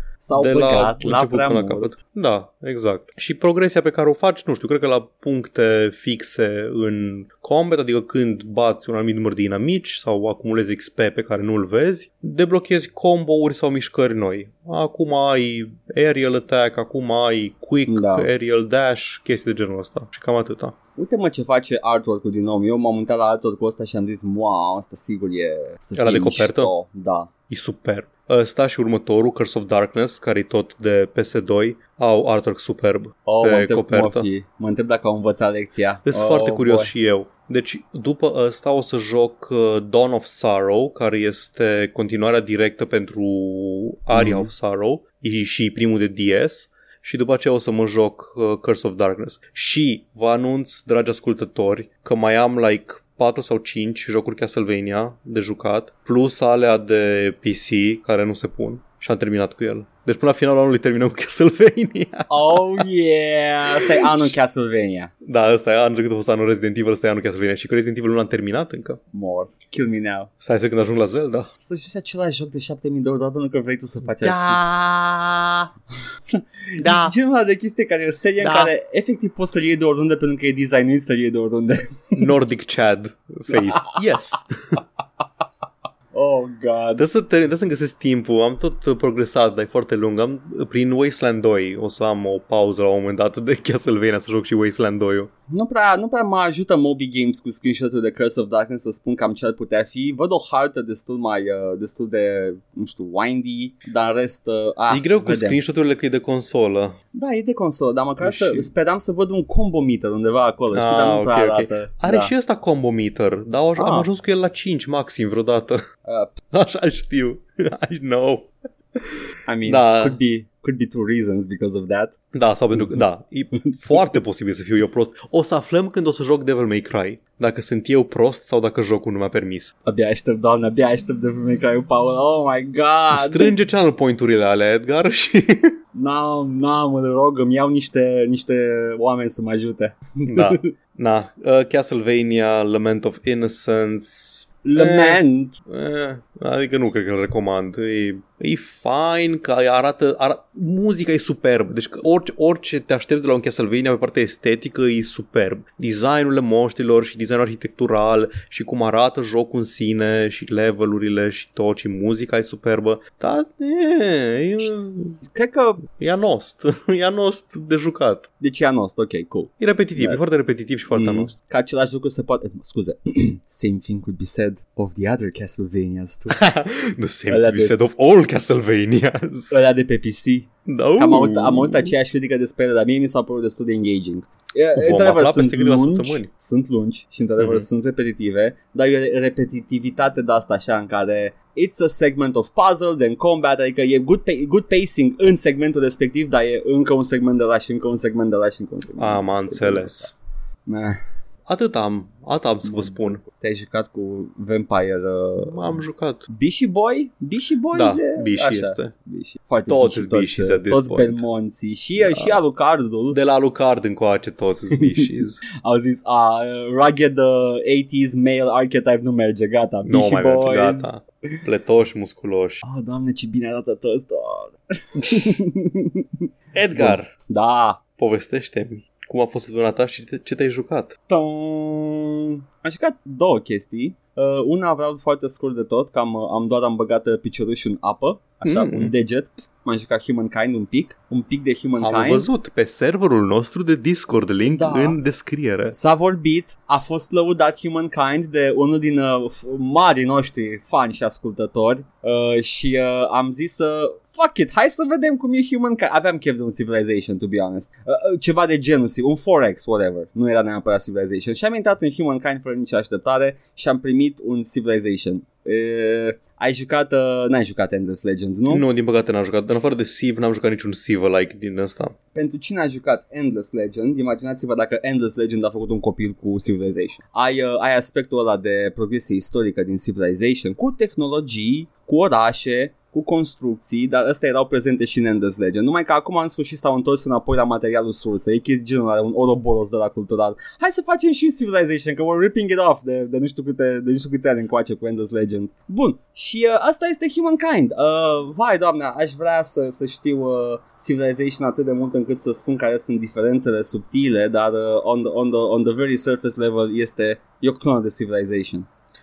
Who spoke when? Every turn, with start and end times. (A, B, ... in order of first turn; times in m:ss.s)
0:00.2-0:02.0 A
0:00.3-0:20.8 B
0:17.9-0:18.3 A
0:21.0-0:27.3 A
0:26.0-0:26.7 B
0:27.5-0:34.3 B
0:33.3-0:36.9 A
0:36.1-1:02.9 B
0:44.1-0:44.5 A
1:02.3-1:05.1 A
1:03.7-1:04.3 B
1:05.2-1:09.0 B
1:09.1-1:10.3 A
1:10.4-1:11.5 B
1:11.6-1:14.8 A
1:14.2-1:15.7 B
1:16.2-1:22.3 A
1:16.8-1:17.1 B
1:18.4-1:18.7 B
1:22.2-1:24.8 B
1:23.5-1:24.2 A
1:26.1-1:27.0 A
1:27.0-1:35.3 B
1:35.5-1:45.6 A
1:44.9-1:47.0 B
1:47.1-1:52.3 A
1:48.2-1:48.7 B
1:50.7-1:55.8 B
1:53.8-1:54.1 A
1:56.0-1:56.4 A
1:56.5-2:00.2 B
1:59.5-2:02.1 A
2:02.3-2:09.7 B
2:09.9-2:13.6 A
2:13.1-2:15.7 B
2:16.0-2:20.7 A
2:20.3-2:45.2 B
2:24.6-2:25.6 A
2:45.2-2:45.8 A
2:45.9-2:48.3 B
2:48.4-2:50.3 A
2:49.6-2:51.3 B
2:50.9-2:56.4 A
2:56.3-2:59.6 B
2:57.3-2:57.8 A
2:59.5-3:20.1 A
3:00.7-3:01.9 B
3:04.8-3:06.3 B
3:07.4-3:07.7 B
3:19.0-3:20.1 B
3:20.7-3:21.0 A
3:21.5-3:23.2 B
3:22.6-3:33.2 A
3:25.4-3:26.3 B
3:27.7-3:28.9 B
3:29.7-3:31.2 B
3:32.0-3:32.4 B
3:33.1-3:35.4 B
3:35.6-3:40.9 A
3:39.8-3:42.6 B
3:42.6-3:46.0 A
3:45.0-3:45.4 B
3:46.5-3:47.1 B
3:46.8-3:47.8 A
3:48.0-3:51.0 B
3:51.1-4:02.3 A
3:58.4-3:58.9 B
4:01.8-4:05.8 B
4:04.5-4:05.0 A
4:05.7-4:28.6 A
4:28.5-4:32.0 B
4:32.1-5:08.7 A